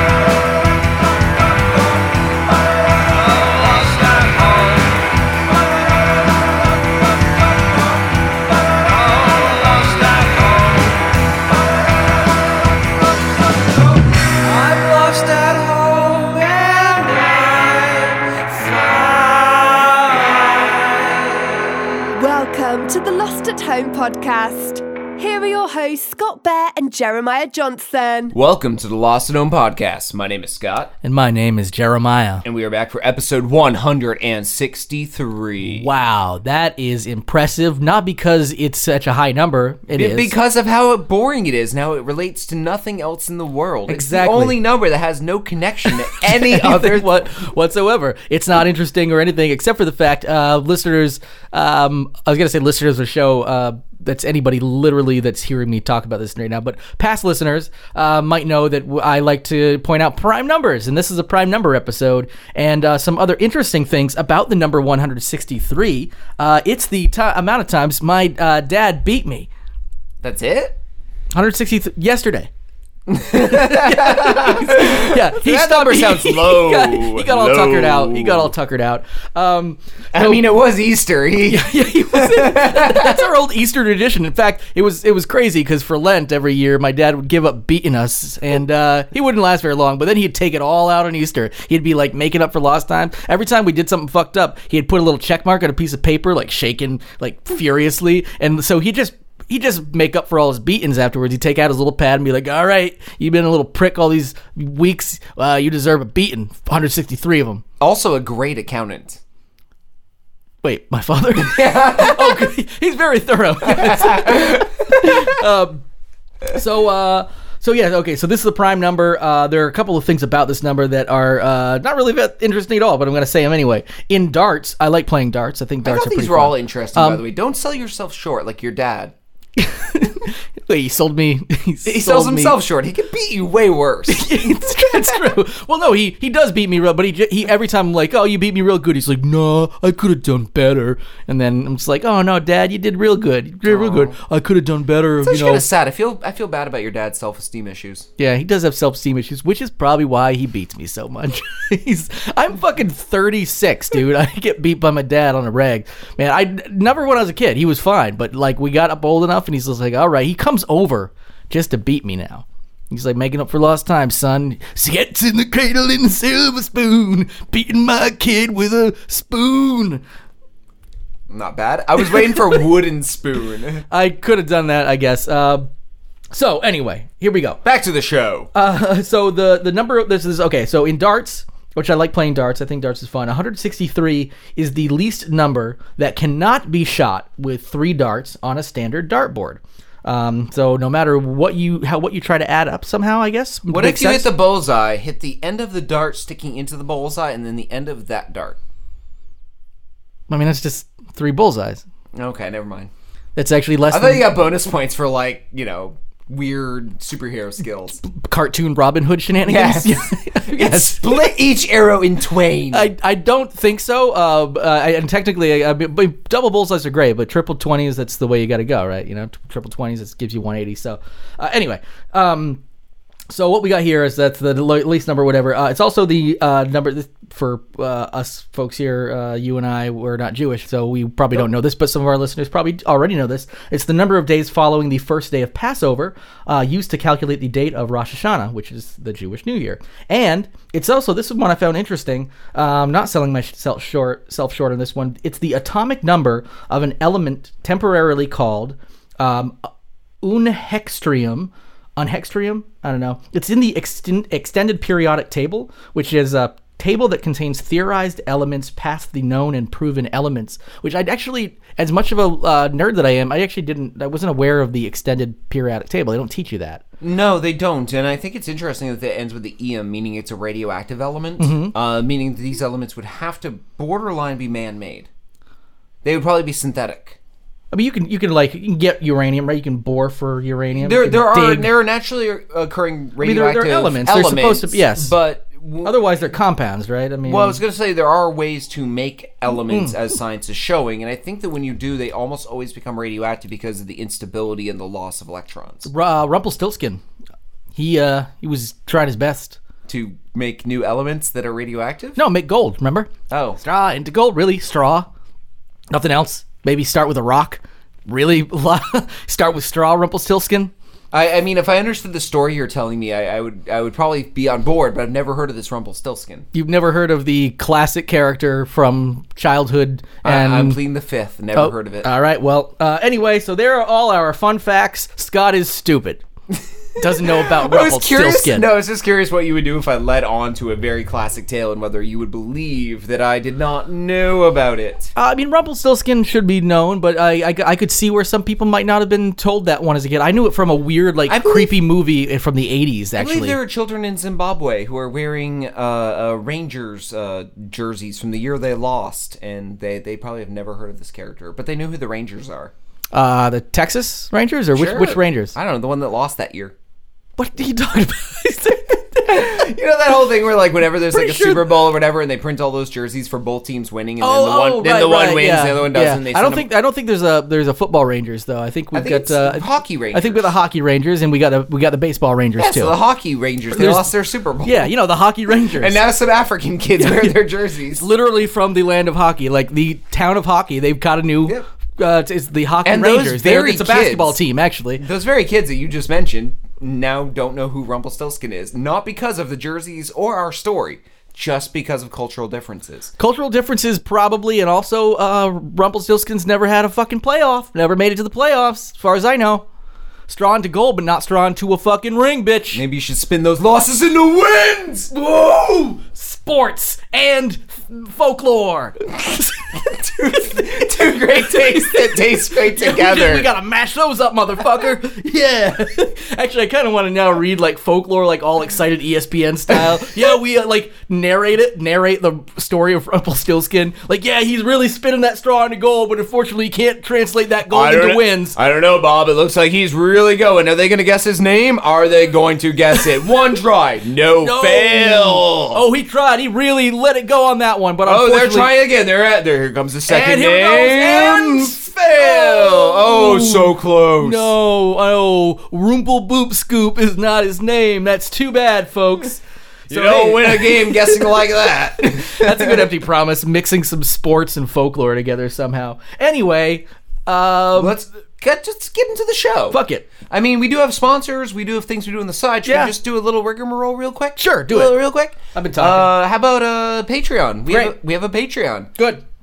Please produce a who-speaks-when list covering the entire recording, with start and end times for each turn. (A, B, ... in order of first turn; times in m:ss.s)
0:03.3-0:05.0 A
0:08.8-0:11.0 A
0:14.3-0:20.2 A
0:22.2-0:28.3 B
0:28.3-0:30.9 A
0:31.0-0:32.4 C
0:32.4-0:35.9 A
0:35.6-0:40.3 C
0:40.0-0:47.2 A
0:43.9-0:44.6 C
0:46.1-1:09.5 C
1:10.2-1:10.8 A
1:11.3-1:12.5 C
1:13.1-1:18.5 A
1:13.4-1:20.4 C
1:20.1-1:23.3 A
1:21.4-1:47.6 C
1:47.8-1:49.2 A
1:50.6-1:55.8 C
1:51.4-1:52.5 A
1:53.7-1:55.3 A
1:56.5-2:07.2 C
2:05.8-2:09.1 A
2:09.6-2:12.6 C
2:11.8-2:15.2 A
2:14.1-2:25.6 C
2:23.6-2:24.2 A
2:25.2-2:28.1 A
2:28.2-2:50.0 C
2:51.3-2:53.8 A
2:53.9-2:55.7 C
2:56.3-2:57.6 C
2:57.6-2:58.5 A
2:58.5-3:14.3 C
3:13.7-3:18.6 A
3:20.3-3:21.8 C
3:22.1-3:22.9 A
3:23.4-3:24.3 C
3:23.9-3:28.0 A
3:28.0-3:31.3 C
3:29.4-3:32.9 A
3:32.7-3:42.6 C
3:43.3-4:09.7 C
4:10.2-4:26.8 C
4:27.0-4:35.1 A
4:31.4-4:31.7 C
4:36.0-4:37.2 A
4:37.7-4:41.7 C
4:40.8-4:46.2 A
4:43.2-4:45.1 C
4:45.8-4:47.6 C
4:47.2-4:55.9 A
4:49.7-4:50.0 C
4:55.9-4:57.0 C
4:57.7-4:59.6 C
4:59.9-5:02.2 A
5:02.2-5:05.1 C
5:03.3-5:03.6 A
5:05.9-5:10.7 C
5:11.1-5:16.5 A
5:16.5-5:20.8 C
5:20.2-5:22.1 A
5:21.6-5:26.2 C
5:27.0-5:28.6 C
5:27.0-5:35.1 A
5:35.2-5:43.6 C
5:41.3-5:41.7 A
5:43.2-5:52.7 A
5:53.1-5:55.5 C
5:54.7-5:56.7 A
5:57.4-5:59.7 C
5:59.2-6:06.7 A
6:01.1-6:01.7 C
6:04.2-6:13.0 C
6:08.9-6:10.5 A
6:12.6-6:14.9 A
6:13.7-6:14.1 C
6:14.6-6:16.0 C
6:15.7-6:18.1 A
6:17.0-6:17.4 C
6:18.0-6:25.0 C
6:22.8-6:24.4 A
6:25.0-6:33.1 A
6:33.2-6:39.6 C
6:40.3-6:42.8 C
6:42.7-6:45.1 A
6:45.1-7:08.6 C
6:49.8-6:53.5 A
6:59.7-7:00.1 A
7:07.7-7:15.8 A
7:14.4-7:18.7 C
7:18.0-7:24.5 A
7:20.1-7:31.3 C
7:29.9-7:32.9 A
7:32.0-7:38.0 C
7:37.7-7:48.9 A
7:39.7-7:40.1 C
7:42.6-7:42.9 C
7:44.4-7:45.0 C
7:45.5-7:46.1 C
7:49.0-7:49.2 C